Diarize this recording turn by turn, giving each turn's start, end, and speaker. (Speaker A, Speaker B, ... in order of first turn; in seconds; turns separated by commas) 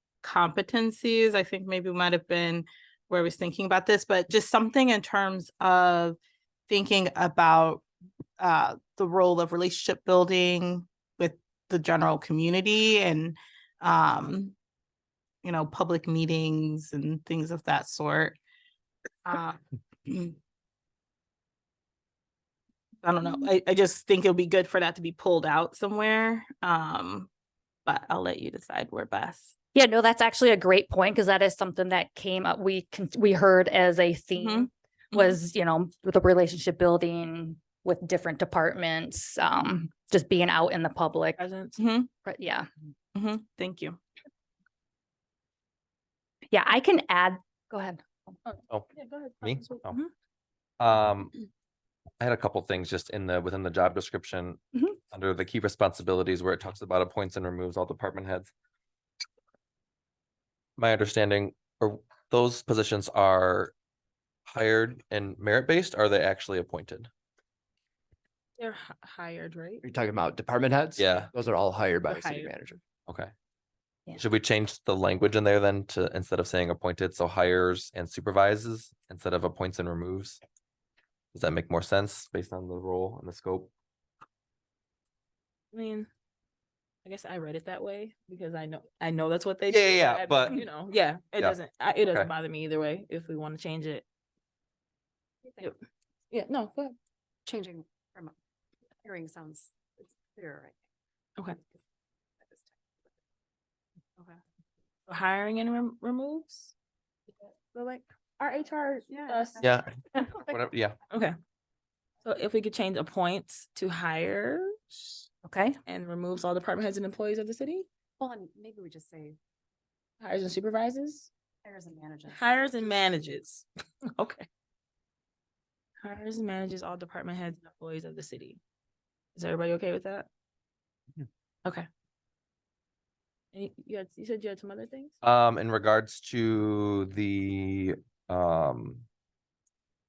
Speaker A: 0.2-7.8, Speaker A: 8.4-14.5, Speaker A: 15.4-18.4, Speaker A: 19.2-20.4, Speaker A: 23.0-27.3, Speaker A: 27.8-29.5, Speaker B: 29.7-41.4, Speaker A: 34.3-35.4, Speaker C: 41.4-41.8, Speaker A: 41.8-42.1, Speaker B: 42.2-42.7, Speaker A: 43.1-44.0, Speaker B: 46.5-48.3, Speaker C: 48.4-50.1, Speaker D: 49.4-50.0, Speaker D: 50.8-51.4, Speaker D: 52.2-58.5, Speaker D: 60.8-63.7, Speaker D: 64.5-67.1, Speaker C: 68.6-69.8, Speaker E: 69.8-72.8, Speaker D: 71.0-71.3, Speaker C: 72.0-72.7, Speaker D: 73.1-73.3, Speaker D: 74.1-80.4, Speaker D: 81.3-83.7, Speaker C: 85.7-86.1, Speaker C: 87.0-94.0, Speaker D: 89.7-90.6, Speaker D: 91.3-92.3, Speaker C: 96.3-96.9, Speaker F: 97.5-98.3, Speaker F: 99.0-100.8, Speaker F: 102.4-102.8, Speaker C: 105.1-106.7, Speaker C: 107.7-110.3, Speaker F: 109.1-109.7, Speaker D: 109.6-111.0, Speaker C: 112.2-115.2, Speaker B: 115.4-115.8, Speaker C: 115.8-117.8, Speaker F: 118.2-119.3, Speaker C: 120.2-121.3, Speaker F: 121.6-123.2, Speaker C: 122.3-124.5, Speaker C: 126.0-128.6, Speaker C: 129.3-130.3, Speaker C: 133.5-135.1, Speaker D: 135.2-139.1